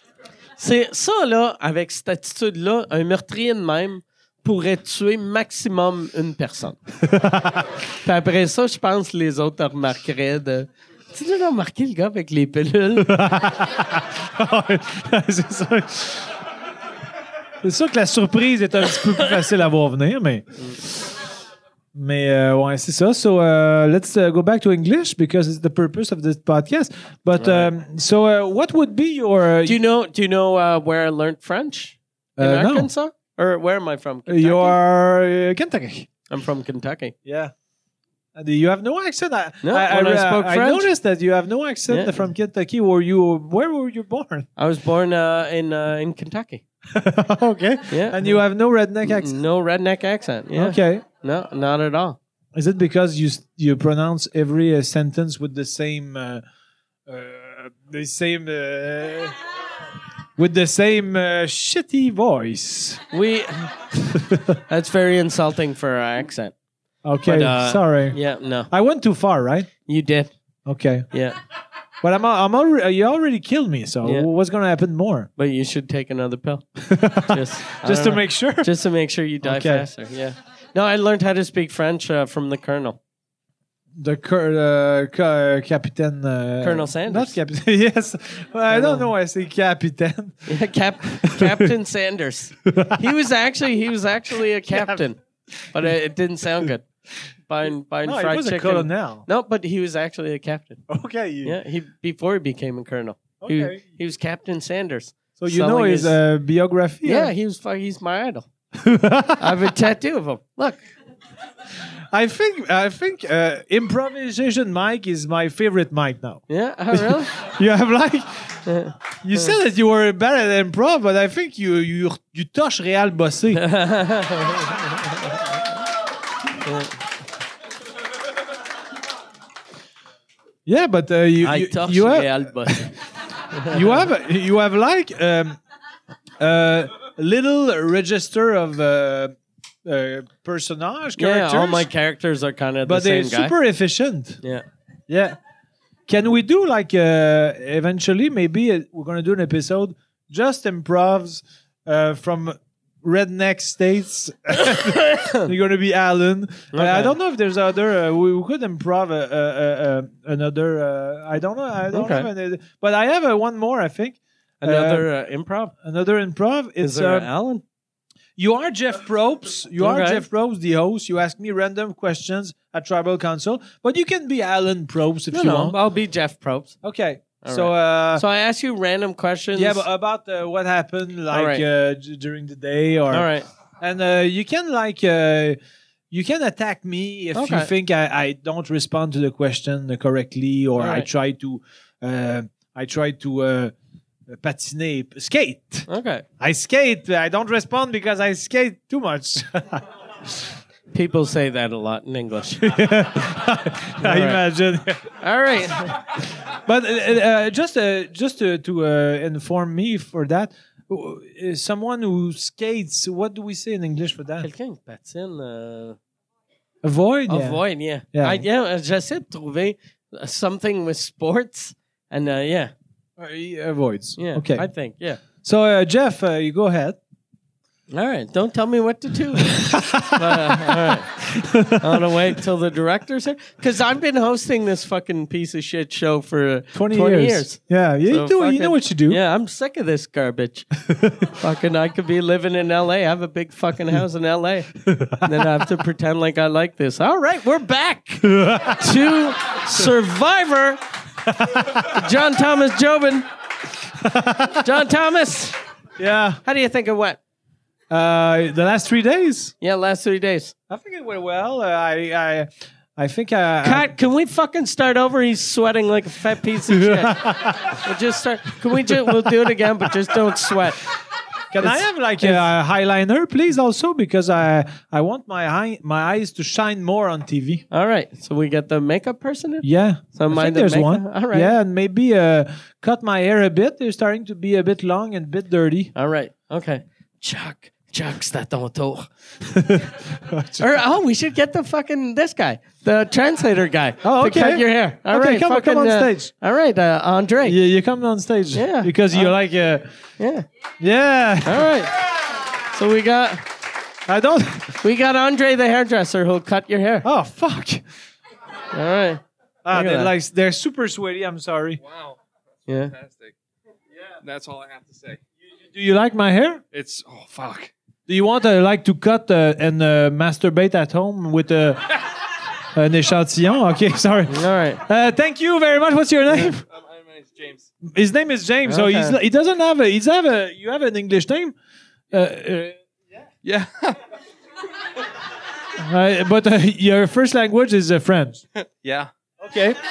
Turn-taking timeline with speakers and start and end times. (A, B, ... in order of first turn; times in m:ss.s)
0:00.6-0:06.8 A
0:07.0-0:07.7 B
0:08.0-0:13.1 A
0:13.0-0:16.4 B
0:17.6-0:21.2 B
0:21.9-0:29.8 B
0:27.4-0:27.7 A
0:29.6-0:34.8 A
0:32.4-0:32.9 B
0:34.3-0:36.1 B
0:36.3-0:37.1 A
0:37.2-0:37.5 B
0:38.4-0:44.5 B
0:39.6-0:40.9 A
0:41.9-0:42.2 A
0:44.6-0:46.6 A
0:46.9-0:49.4 B
0:47.9-0:48.4 A
0:49.0-0:52.2 A
0:50.5-0:51.0 B
0:52.5-0:56.4 B
0:57.1-0:59.4 B
1:00.4-1:03.0 B
1:03.1-1:03.9 A
1:03.9-1:04.6 B
1:04.7-1:06.5 A
1:07.0-1:08.2 B
1:07.2-1:08.7 A
1:08.7-1:09.7 B
1:09.8-1:10.3 A
1:10.6-1:11.1 B
1:11.1-1:11.4 A
1:12.0-1:15.3 B
1:15.4-1:16.6 A
1:16.8-1:18.7 B
1:17.3-1:23.0 A
1:19.4-1:19.9 B
1:24.0-1:30.5 B
1:26.6-1:27.4 A
1:28.7-1:29.1 A
1:30.5-1:35.2 A
1:31.2-1:31.7 B
1:32.7-1:33.0 B
1:34.7-1:35.0 B
1:35.7-1:36.9 A
1:37.5-1:40.8 A
1:38.0-1:39.2 B
1:40.9-1:41.6 B
1:41.4-1:46.2 A
1:43.4-1:43.8 B
1:45.4-1:47.3 B
1:47.0-1:48.5 A
1:48.7-1:49.7 B
1:49.4-1:50.8 A
1:52.1-1:58.6 B
1:56.5-1:57.3 A
1:58.6-1:59.5 A
1:59.2-2:03.6 B
2:03.5-2:05.4 A
2:06.6-2:06.9 A
2:10.6-2:12.9 B
2:11.4-2:12.9 A
2:13.5-2:14.0 A
2:13.6-2:15.6 B
2:16.4-2:21.9 B
2:21.2-2:23.5 A
2:22.8-2:24.4 B
2:25.1-2:25.4 B
2:26.1-2:45.0 B
2:34.7-2:35.5 A
2:36.7-2:37.1 A
2:41.9-2:42.3 A
2:44.6-2:45.7 A
2:45.8-2:47.3 B
2:46.8-2:47.6 A
2:48.4-2:55.8 B
2:49.8-2:50.2 A
2:55.3-2:56.7 A
2:56.8-2:58.2 B
2:57.4-2:59.8 A
2:59.5-3:03.3 B
3:01.3-3:01.6 A
3:03.1-3:03.5 A
3:03.8-3:05.6 B
3:06.1-3:13.7 B
3:07.3-3:07.7 A
3:10.8-3:11.1 A
3:14.3-3:15.9 B
3:15.9-3:16.2 A
3:16.4-3:20.4 B
3:20.9-3:22.6 A
3:22.6-3:25.1 B
3:24.0-3:24.4 A
3:25.2-3:26.0 A
3:26.4-3:34.5 B
3:34.4-3:36.0 A
3:36.8-3:37.6 B
3:37.3-3:42.7 A
3:38.1-3:38.4 B
3:43.2-3:44.7 B
3:44.2-3:45.2 A
3:45.4-3:47.0 B
3:47.9-3:51.2 A
3:49.4-3:52.2 B
3:51.7-4:00.7 A
3:56.7-3:59.2 B
4:00.8-4:01.3 B
4:01.3-4:10.8 A
4:04.8-4:05.5 B
4:08.2-4:09.0 B
4:11.2-4:12.0 B
4:11.7-4:13.3 A
4:13.8-4:14.7 B
4:14.6-4:15.6 A
4:16.0-4:16.4 B
4:16.4-4:17.2 A
4:17.9-4:19.5 B
4:19.6-4:20.5 A
4:20.7-4:23.9 B
4:23.6-4:30.8 A
4:26.7-4:27.8 B
4:31.5-4:37.6 B
4:31.6-4:32.4 A
4:37.7-4:41.5 A
4:39.6-4:45.9 B
4:45.9-4:49.1 A
4:49.4-4:50.7 B
4:50.6-4:57.6 A
4:54.0-4:56.3 B
4:57.4-4:59.9 B
4:58.5-4:59.3 A
5:00.2-5:00.4 A
5:00.8-5:01.8 B
5:01.4-5:01.9 A
5:02.7-5:03.4 A
5:04.1-5:04.8 B
5:04.8-5:07.1 A
5:07.0-5:07.8 B
5:08.7-5:10.1 A
5:09.6-5:11.8 B
5:11.8-5:13.3 C
5:12.7-5:12.9 A
5:14.2-5:15.2 C
5:15.7-5:16.6 B
5:16.7-5:17.7 C
5:18.1-5:22.0 B
5:22.7-5:26.6 B
5:24.3-5:24.8 A
5:26.4-5:27.7 C
5:27.8-5:31.5 B
5:28.6-5:29.2 A
5:32.1-5:32.8 B
5:33.4-5:34.0 C
5:35.8-5:38.4 B
5:38.6-5:39.1 C
5:39.4-5:39.8 B